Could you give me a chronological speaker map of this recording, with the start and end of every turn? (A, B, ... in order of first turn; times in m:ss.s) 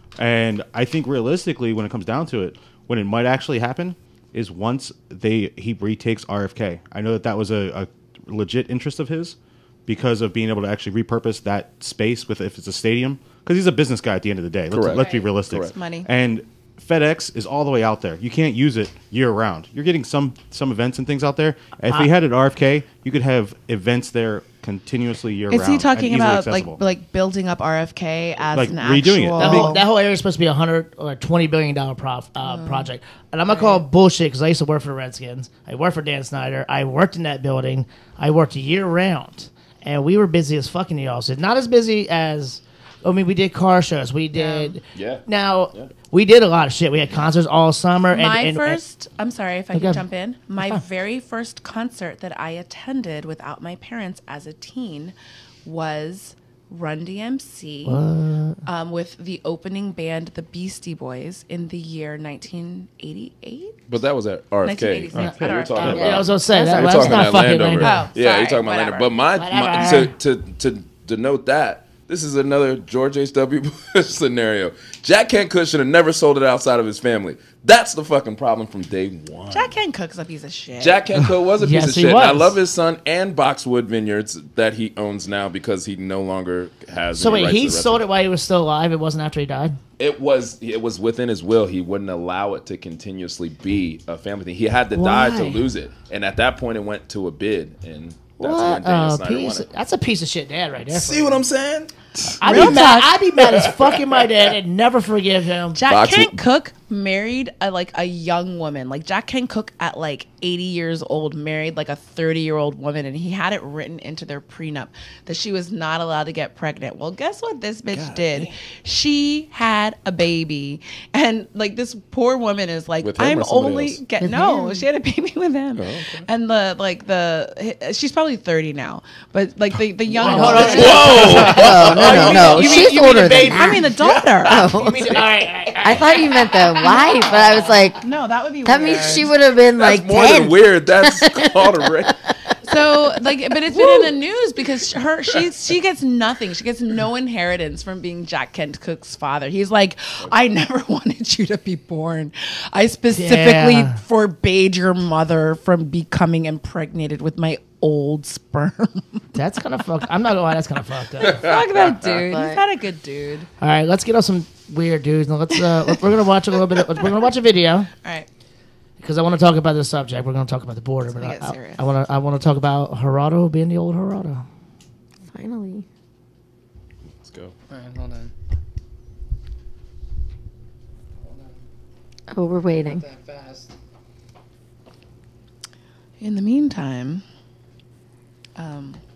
0:00.2-0:26.8 A
0:14.7-0:15.7 B
0:15.0-0:16.1 C
0:25.5-0:29.8 C
0:28.5-0:29.8 A
0:29.4-0:48.8 D
0:32.4-0:32.9 C
0:33.5-0:33.8 C
0:44.4-0:44.8 C
0:44.9-0:45.9 B
0:48.1-0:58.0 C
0:49.7-0:50.0 D
0:57.8-0:58.6 D
0:58.6-1:03.8 C
1:03.9-1:19.7 B
1:04.6-1:07.2 C
1:05.2-1:08.0 D
1:07.8-1:09.1 C
1:09.4-1:10.1 D
1:19.5-1:21.0 C
1:20.8-1:28.0 B
1:21.6-1:22.6 D
1:27.1-1:29.8 D
1:30.0-1:39.7 B
1:34.9-1:35.7 D
1:38.4-1:41.4 D
1:40.9-1:42.8 B
1:42.4-1:45.8 D
1:42.4-1:43.2 C
1:43.4-1:44.0 B
1:45.7-2:14.9 C
1:45.9-1:46.4 B
1:57.9-1:58.6 B
2:03.0-2:04.0 B
2:04.2-2:04.8 E
2:05.8-2:06.3 B
2:10.2-2:13.9 D
2:10.2-2:13.8 E
2:10.5-2:12.6 B
2:14.0-2:14.3 B
2:14.4-2:15.2 E
2:14.5-2:17.6 D
2:15.8-2:18.0 E
2:16.9-2:19.3 C
2:18.6-2:22.1 E
2:18.8-2:19.1 F
2:19.7-2:22.2 B
2:22.6-2:39.2 C
2:33.1-2:34.0 D
2:39.3-2:41.5 D
2:41.2-2:43.5 C
2:41.4-2:42.2 B
2:42.2-2:42.6 E
2:43.6-2:47.9 D
2:46.7-2:47.0 C
2:48.0-2:48.3 C
2:49.0-2:54.4 D
2:51.1-2:51.8 C
2:55.3-2:55.8 E
2:57.2-2:57.5 B
2:57.7-2:58.3 F
3:01.2-3:01.6 F
3:02.3-3:03.0 E
3:02.8-3:03.7 F
3:06.2-3:07.2 C
3:08.6-3:09.0 C